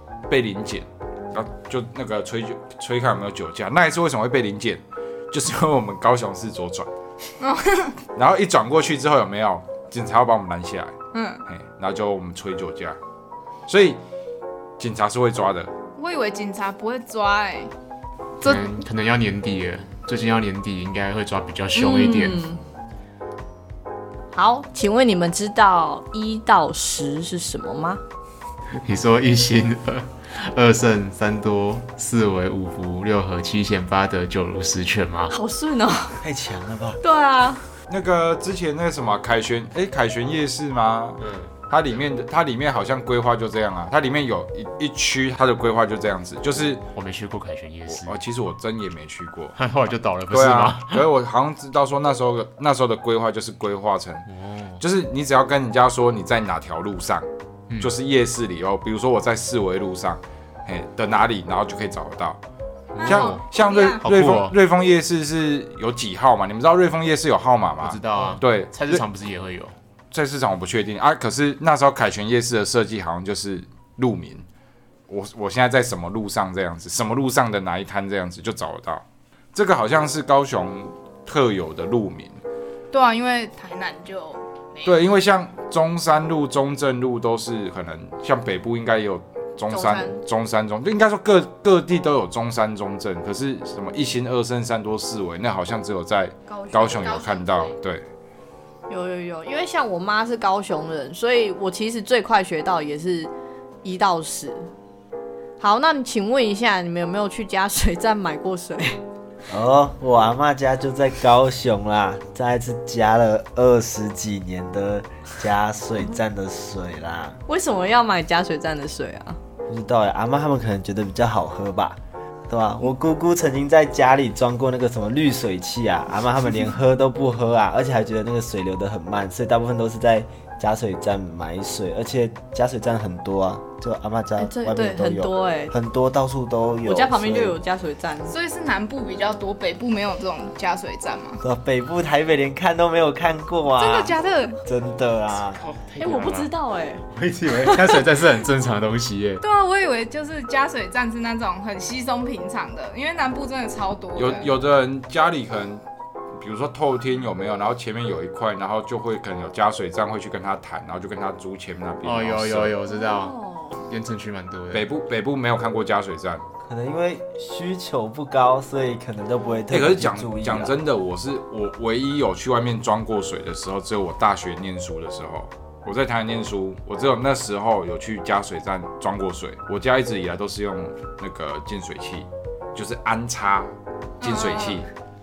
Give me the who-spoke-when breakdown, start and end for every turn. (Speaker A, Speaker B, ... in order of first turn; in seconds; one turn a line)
Speaker A: 0.3-6.9
Speaker B: 7.4-8.0
Speaker A: 8.2-10.9
Speaker B: 11.1-11.4
Speaker A: 11.5-13.0
Speaker A: 13.7-14.0
Speaker A: 14.8-15.7
Speaker B: 16.0-17.7
Speaker B: 18.4-18.7
Speaker C: 18.4-22.4
Speaker D: 21.8-22.6
Speaker D: 24.3-28.0
Speaker C: 28.8-35.3
Speaker D: 35.3-36.2
Speaker E: 36.2-37.0
Speaker D: 37.0-37.6
Speaker A: 37.9-46.9
Speaker C: 41.2-41.9
Speaker C: 46.9-48.1
Speaker A: 47.9-49.6
Speaker C: 49.6-51.1
Speaker A: 50.3-54.3
Speaker C: 54.3-54.8
Speaker A: 54.8-57.3
Speaker A: 57.8-62.4
Speaker C: 62.9-63.5
Speaker B: 63.0-64.0
Speaker A: 63.0-69.0
Speaker C: 64.0-64.6
Speaker C: 67.8-69.8
Speaker A: 70.1-74.5
Speaker A: 75.1-82.4
Speaker B: 82.9-85.1
Speaker A: 84.8-98.0
Speaker D: 89.7-90.2
Speaker D: 96.5-97.1
Speaker B: 96.7-97.7
Speaker D: 98.9-103.3
Speaker D: 103.8-104.7
Speaker D: 105.6-109.0
Speaker E: 109.5-117.4
Speaker D: 117.5-119.4
Speaker E: 119.7-122.0
Speaker E: 122.5-137.6
Speaker D: 134.4-135.7
Speaker D: 136.8-138.3
Speaker B: 138.3-141.4
Speaker E: 141.4-145.6
Speaker B: 143.8-144.6
Speaker C: 145.6-146.5
Speaker D: 146.0-147.0
Speaker E: 147.1-148.0
Speaker C: 147.6-149.4
Speaker B: 149.4-154.6
Speaker A: 154.2-155.8
Speaker A: 156.4-162.8
Speaker C: 162.0-164.9
Speaker D: 163.0-163.7
Speaker A: 164.7-166.4
Speaker E: 166.6-170.8
Speaker A: 169.7-184.9
Speaker B: 184.2-184.9